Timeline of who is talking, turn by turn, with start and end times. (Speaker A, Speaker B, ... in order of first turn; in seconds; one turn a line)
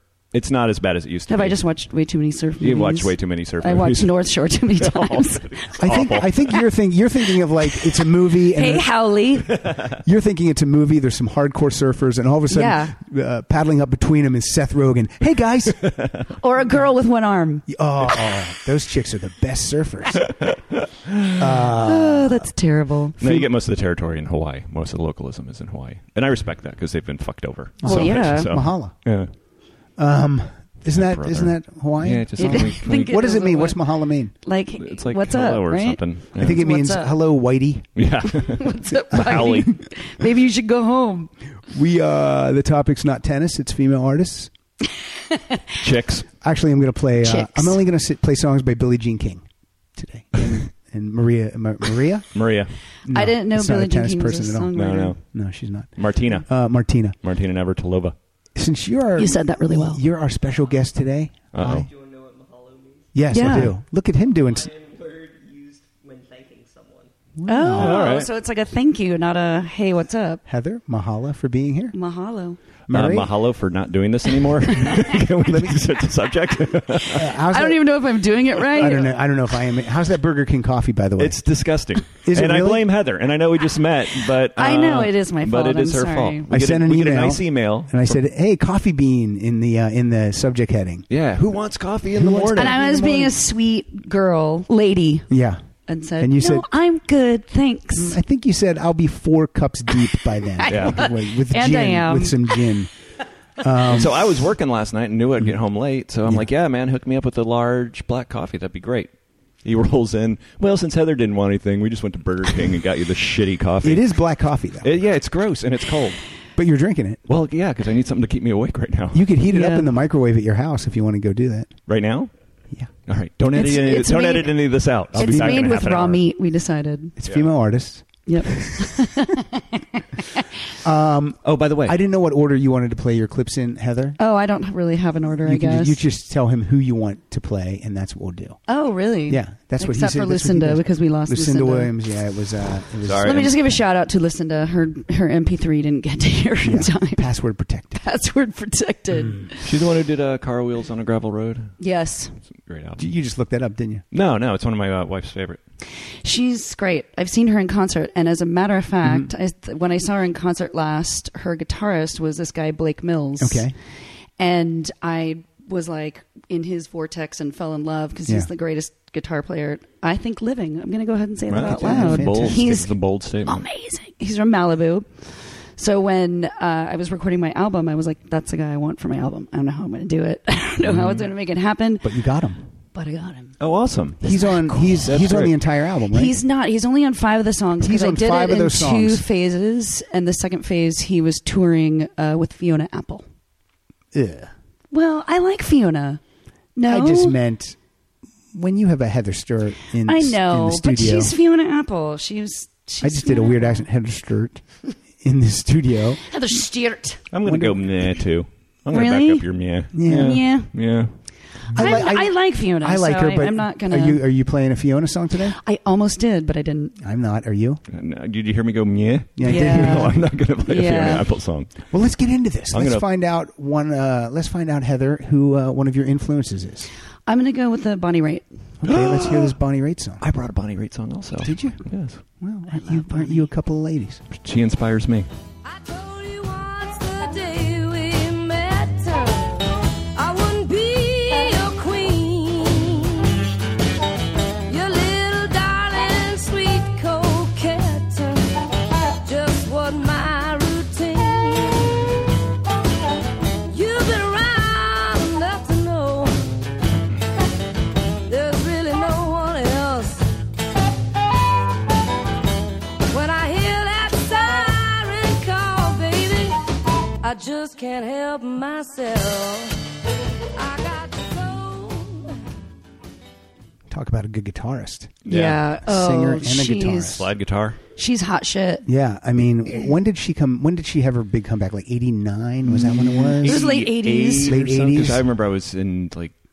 Speaker A: 0.3-1.6
Speaker B: 1.3-5.6
Speaker A: 2.6-4.2
Speaker A: 4.8-6.5
Speaker C: 5.8-8.9
Speaker B: 8.4-9.5
Speaker C: 10.0-16.1
Speaker B: 12.5-12.9
Speaker A: 15.8-16.2
Speaker B: 16.4-17.6
Speaker C: 17.7-20.4
Speaker A: 20.4-21.4
Speaker C: 21.3-22.5
Speaker B: 21.8-23.2
Speaker C: 23.2-23.5
Speaker A: 23.2-29.3
Speaker B: 27.8-28.6
Speaker C: 27.8-28.9
Speaker C: 30.0-34.3
Speaker A: 30.9-33.3
Speaker B: 32.4-37.1
Speaker A: 34.8-36.6
Speaker C: 36.4-38.0
Speaker A: 38.0-39.7
Speaker B: 38.5-41.3
Speaker C: 39.1-39.7
Speaker C: 41.7-44.5
Speaker B: 45.3-45.8
Speaker A: 45.8-46.2
Speaker C: 46.4-49.4
Speaker B: 47.2-47.8
Speaker C: 50.0-52.3
Speaker A: 52.3-52.7
Speaker C: 53.0-54.7
Speaker B: 53.1-55.2
Speaker A: 54.7-55.2
Speaker C: 55.2-57.2
Speaker A: 56.0-56.5
Speaker A: 57.2-58.1
Speaker C: 58.5-61.9
Speaker B: 59.1-60.0
Speaker A: 61.5-61.9
Speaker D: 61.6-63.4
Speaker C: 63.1-64.7
Speaker B: 63.3-63.8
Speaker D: 64.2-67.1
Speaker C: 67.4-68.2
Speaker B: 67.5-70.4
Speaker A: 67.7-68.3
Speaker C: 70.5-72.0
Speaker B: 71.9-72.6
Speaker C: 72.9-73.3
Speaker A: 72.9-77.3
Speaker C: 75.4-75.8
Speaker C: 77.0-78.0
Speaker B: 77.5-79.1
Speaker C: 78.6-81.4
Speaker A: 81.2-88.2
Speaker C: 82.2-82.9
Speaker B: 84.6-86.5
Speaker C: 86.5-91.1
Speaker A: 91.1-92.8
Speaker C: 92.1-93.4
Speaker B: 92.5-95.3
Speaker C: 95.3-95.6
Speaker B: 95.9-98.2
Speaker C: 96.2-96.7
Speaker C: 97.9-102.9
Speaker B: 100.6-102.6
Speaker A: 100.7-101.1
Speaker C: 103.6-104.3
Speaker A: 103.8-109.1
Speaker A: 109.6-114.0
Speaker C: 113.8-114.9
Speaker A: 114.8-116.2
Speaker C: 116.5-117.2
Speaker A: 117.3-119.3
Speaker C: 119.1-121.7
Speaker B: 119.5-119.9
Speaker A: 121.9-122.3
Speaker A: 123.1-126.2
Speaker B: 123.5-127.1
Speaker C: 125.2-125.8
Speaker C: 127.2-128.2
Speaker A: 127.2-127.5
Speaker B: 128.2-130.2
Speaker C: 130.8-134.2
Speaker A: 131.4-132.0
Speaker B: 134.2-136.0
Speaker C: 135.4-138.6
Speaker B: 138.7-141.9
Speaker C: 139.3-143.8
Speaker A: 143.0-143.5
Speaker B: 143.2-147.3
Speaker C: 146.6-148.0
Speaker B: 147.9-149.7
Speaker A: 149.6-151.7
Speaker B: 151.8-152.3
Speaker A: 152.7-153.0
Speaker C: 153.0-154.0
Speaker A: 154.1-155.6
Speaker B: 156.2-163.7
Speaker C: 159.0-159.3
Speaker C: 163.4-163.7
Speaker B: 164.4-172.9
Speaker A: 171.5-173.7
Speaker C: 171.5-172.7
Speaker B: 173.4-175.1
Speaker B: 175.8-182.1
Speaker A: 180.9-181.2
Speaker C: 182.0-182.6
Speaker B: 182.9-183.6
Speaker A: 183.6-184.2
Speaker B: 184.2-185.0
Speaker C: 184.2-186.4
Speaker A: 184.9-185.6
Speaker B: 186.1-193.2
Speaker C: 187.8-189.2
Speaker C: 194.1-194.5
Speaker B: 194.9-196.2
Speaker B: 196.8-197.4
Speaker C: 196.8-197.8
Speaker C: 198.5-201.3
Speaker B: 200.0-203.8
Speaker C: 203.0-204.6
Speaker C: 205.2-206.2
Speaker B: 206.3-207.2
Speaker A: 207.3-211.1
Speaker C: 207.4-207.9
Speaker B: 208.9-209.5
Speaker C: 209.9-210.4
Speaker B: 210.1-210.7
Speaker C: 211.7-215.6
Speaker B: 211.7-214.2
Speaker B: 215.5-216.9
Speaker C: 217.0-217.8
Speaker A: 217.9-221.7
Speaker C: 219.4-220.2
Speaker B: 219.4-221.3
Speaker C: 221.9-226.9
Speaker A: 222.7-223.0
Speaker B: 227.3-228.5
Speaker C: 228.8-230.2
Speaker A: 228.8-229.5
Speaker A: 230.2-232.2
Speaker C: 231.4-231.8
Speaker C: 232.4-234.2
Speaker B: 232.7-233.5
Speaker A: 234.3-235.3
Speaker E: 235.6-243.3
Speaker E: 244.7-248.4
Speaker E: 249.2-252.1
Speaker E: 253.7-256.4
Speaker E: 258.3-260.3
Speaker E: 263.1-266.6
Speaker E: 267.2-269.7
Speaker E: 270.6-272.3
Speaker C: 273.9-275.3
Speaker A: 275.2-275.6
Speaker B: 275.3-277.2
Speaker C: 275.8-277.3
Speaker A: 277.0-277.8
Speaker B: 277.9-278.9
Speaker C: 278.8-283.7
Speaker A: 282.7-286.3
Speaker B: 283.4-284.6
Speaker C: 284.4-285.3